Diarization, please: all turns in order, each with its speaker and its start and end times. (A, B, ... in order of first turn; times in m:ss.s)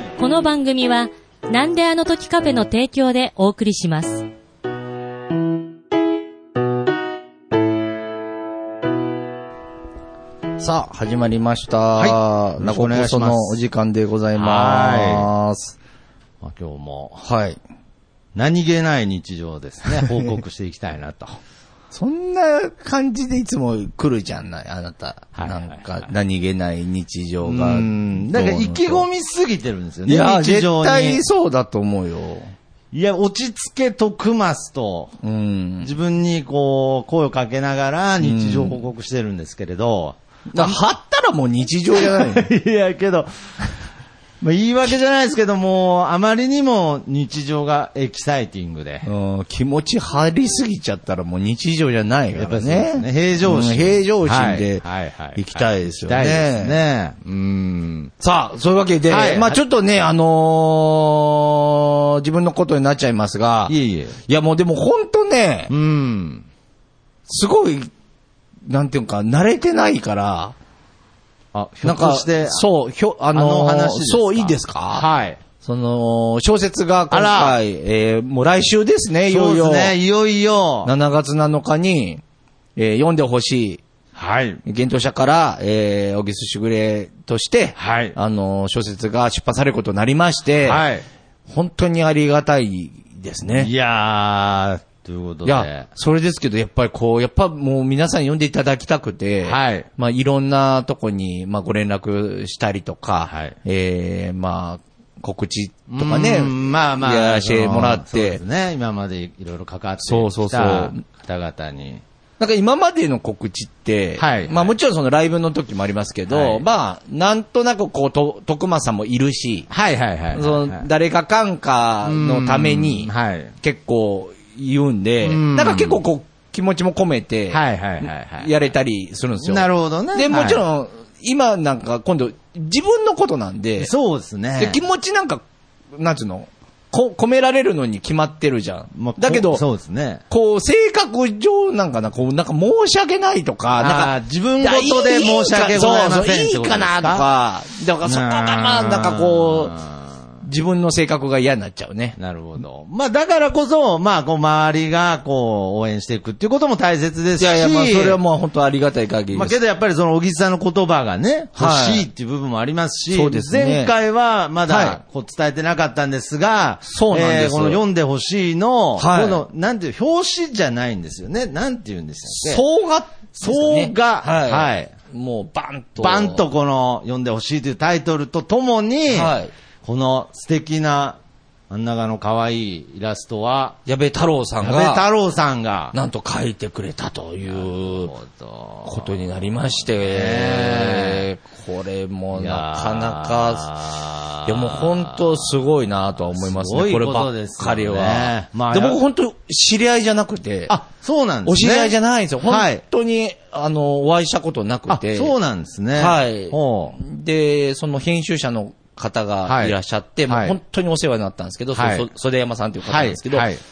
0:00.2-0:04.3 A
0:10.6-0:15.8 B
0:12.0-0:13.6 C
0:14.3-0:15.3 C
0:16.4-0:17.2 C
0:17.2-0:17.6 B
0:18.4-0:21.4 C
0:21.9-0:29.0 B
0:25.4-0:26.1 C
0:27.4-0:31.2 C
0:30.1-0:32.5 B
0:32.9-0:35.2 C
0:35.2-0:35.9 B
0:35.8-0:40.8 C
0:38.2-0:38.8 B
0:40.5-0:42.5 B
0:41.9-0:43.3 C
0:44.4-0:49.1 C
0:49.0-0:54.8 B
0:52.4-0:58.1 C
0:55.4-0:56.8 B
0:58.2-1:03.8 B
0:59.1-0:59.6 C
1:03.7-1:04.2 C
1:04.3-1:05.7 B
1:05.7-1:06.5 C
1:07.3-1:07.9 B
1:08.7-1:10.6 B
1:11.5-1:12.7 C
1:11.8-1:15.1 B
1:13.3-1:15.4 C
1:15.6-1:19.9 B
1:17.1-1:17.6 C
1:19.3-1:20.9 C
1:20.8-1:22.2 B
1:22.8-1:23.8 B
1:24.2-1:24.6 C
1:24.6-1:30.8 B
1:27.8-1:28.2 C
1:30.6-1:31.0 C
1:31.5-1:33.7 B
1:33.6-1:35.9 C
1:35.4-1:48.4 B
1:39.4-1:39.9 C
1:43.3-1:43.6 C
1:45.9-1:52.0 C
1:50.0-1:51.0 B
1:52.4-1:59.7 B
1:54.2-1:54.8 C
1:56.3-1:56.7 C
1:59.7-2:00.9 C
2:00.3-2:13.9 B
2:02.0-2:03.6 C
2:05.2-2:06.0 C
2:07.5-2:08.5 C
2:09.4-2:10.6 C
2:13.8-2:14.8 C
2:14.6-2:15.4 B
2:16.0-2:19.6 B
2:19.0-2:20.2 C
2:20.3-2:29.7 B
2:23.8-2:27.3 C
2:28.0-2:30.2 C
2:30.4-2:32.2 B
2:32.2-2:38.2 C
2:37.4-2:39.6 B
2:39.3-2:52.6 C
2:41.6-2:42.1 B
2:43.1-2:43.9 B
2:44.7-2:45.0 B
2:46.9-2:47.8 B
2:49.0-2:49.4 B
2:52.3-2:56.4 B
2:53.4-2:54.9 C
2:56.0-3:01.2 C
2:59.1-2:59.5 B
3:01.7-3:03.8 C
3:03.9-3:05.1 B
3:04.6-3:05.9 C
3:05.9-3:08.1 B
3:07.5-3:11.3 C
3:08.8-3:13.7 B
3:12.4-3:15.5 C
3:14.4-3:20.8 B
3:16.3-3:19.0 C
3:20.7-3:22.8 C
3:21.4-3:25.3 B
3:24.9-3:27.0 C
3:26.0-3:33.5 B
3:29.4-3:29.8 C
3:30.3-3:30.6 C
3:31.7-3:32.1 C
3:32.9-3:33.6 C